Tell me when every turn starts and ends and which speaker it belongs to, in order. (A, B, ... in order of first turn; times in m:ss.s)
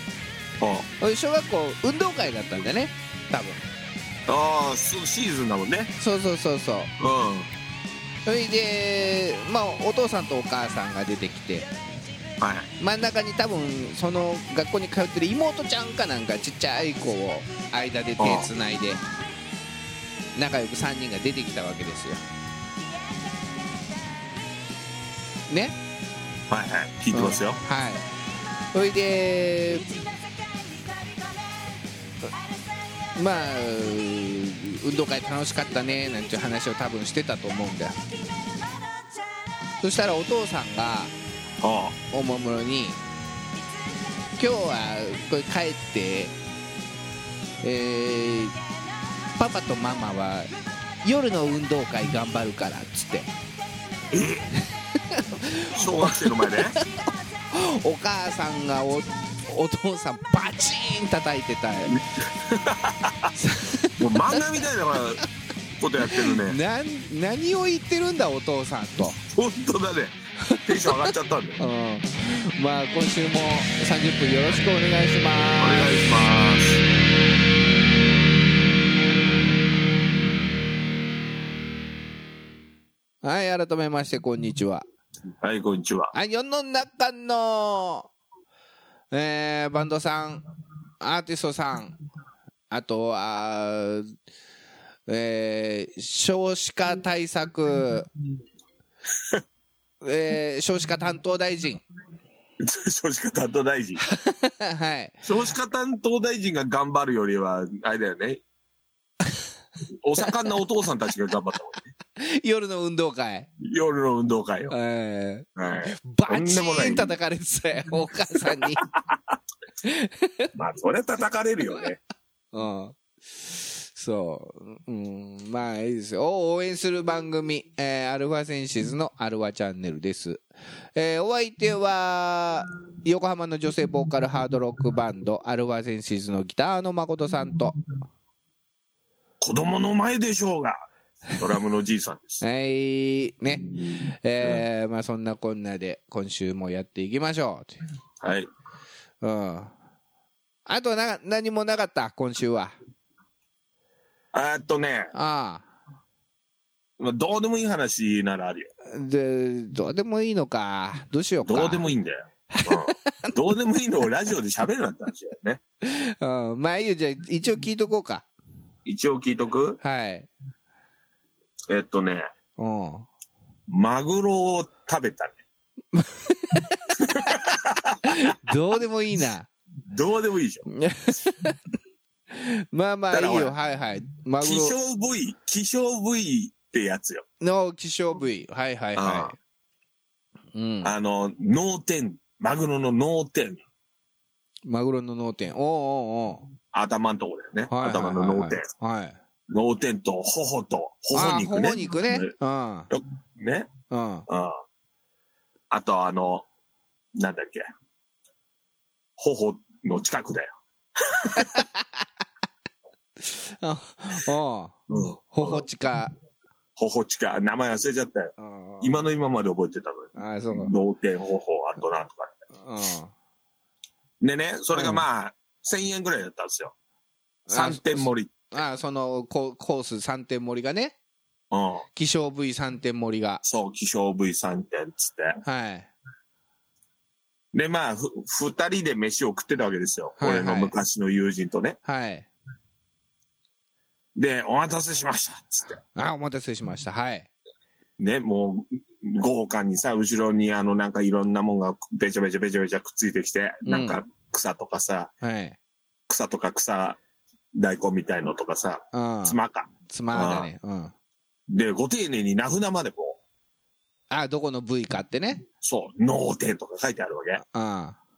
0:00.6-0:00.9 A
0:01.0-0:03.7 B
0:04.3-0:05.9 A
0:06.0-0:06.9 B
0:07.0-0:07.5 A
0:08.3-0:11.7 B
0:12.4-0:12.7 A
0:12.8-0:19.0 B
0:18.2-0:18.5 A
0:20.4-0:22.2 B
0:25.5-0:25.8 B
0:26.5-0:27.6 A
0:27.1-0:28.0 B
0:28.7-0:30.0 B
0:33.2-0:38.0 B
0:39.8-0:41.1 B
0:41.6-0:42.0 A
0:42.1-0:43.0 B
0:44.4-0:46.3 B
0:47.6-0:48.6 B
0:49.4-0:50.5 B
0:51.0-0:53.3 B
0:54.1-0:54.5 A
0:54.9-1:02.0 B
0:55.7-0:56.8 A
1:01.9-1:03.3 A
1:03.4-1:04.5 B
1:04.0-1:05.2 A
1:05.8-1:06.6 A
1:06.0-1:09.2 B
1:09.2-1:10.2 A
1:10.4-1:16.0 B
1:10.7-1:11.6 A
1:15.6-1:16.8 A
1:23.2-1:24.8 B
1:25.4-1:26.1 A
1:26.1-1:28.1 B
1:29.1-1:30.4 B
1:31.0-1:32.0 B
1:32.7-1:34.1 B
1:35.1-1:38.1 B
1:40.0-1:41.8 B
1:42.6-1:44.0 A
1:44.0-1:45.3 B
1:45.2-1:48.4 A
1:50.0-1:51.9 A
1:52.2-1:53.5 B
1:53.6-1:54.7 A
1:54.7-1:58.9 B
1:55.6-1:57.1 A
1:58.4-1:59.2 A
1:59.8-2:00.5 B
2:00.6-2:02.0 A
2:02.5-2:17.8 B
2:19.4-2:22.4 A
2:22.4-2:27.8 B
2:28.2-2:28.5 A
2:29.2-2:29.8 B
2:30.7-2:32.8 B
2:34.3-2:35.1 A
2:35.1-2:35.7 B
2:37.0-2:38.7 A
2:38.8-2:41.9 B
2:41.4-2:45.6 A
2:42.5-2:43.4 B
2:45.8-2:48.3 B
2:48.9-2:49.8 A
2:49.8-2:50.3 B
2:51.7-2:52.3 A
2:52.6-2:53.1 B
2:53.7-2:55.4 A
2:55.9-2:57.4 B
2:57.0-2:58.4 A
2:58.0-2:59.5 B
2:59.9-3:00.7 A
3:00.7-3:01.6 B
3:02.3-3:04.8 B
3:03.1-3:03.5 A
3:04.4-3:07.2 A
3:07.4-3:09.4 B
3:09.0-3:09.3 A
3:10.6-3:10.9 B
3:10.8-3:13.6 A
3:14.7-3:16.4 B
3:16.7-3:18.6 A
3:17.7-3:19.2 B
3:19.5-3:22.3 A
3:21.1-3:22.9 B
3:22.9-3:23.7 A
3:23.9-3:24.3 B
3:24.3-3:24.6 A
3:25.7-3:26.5 A
3:27.2-3:27.6 A
3:29.2-3:31.6 A
3:31.4-3:31.9 B
3:33.2-3:34.8 B
3:34.9-3:35.7 A
3:35.3-3:36.1 B
3:36.8-3:42.3 A
3:38.4-3:39.1 B
3:40.2-3:40.7 B
3:42.6-3:43.1 B
3:44.2-3:46.7 A
3:44.7-3:45.0 B
3:47.5-3:51.0 B
3:47.5-3:48.4 A
3:51.5-3:51.9 A
3:52.0-3:53.4 B
3:53.4-3:55.4 A
3:55.4-3:55.9 B
3:57.5-4:01.8 A
4:00.2-4:00.7 B
4:01.8-4:02.3 B
4:04.2-4:05.8 A
4:06.0-4:07.3 B
4:08.0-4:15.1 A
4:13.7-4:14.0 B
4:15.2-4:15.6 B
4:16.1-4:17.0 A
4:17.6-4:20.5 A
4:18.9-4:20.9 B
4:21.5-4:23.2 A
4:24.1-4:25.4 B
4:25.6-4:27.4 A
4:27.4-4:28.0 B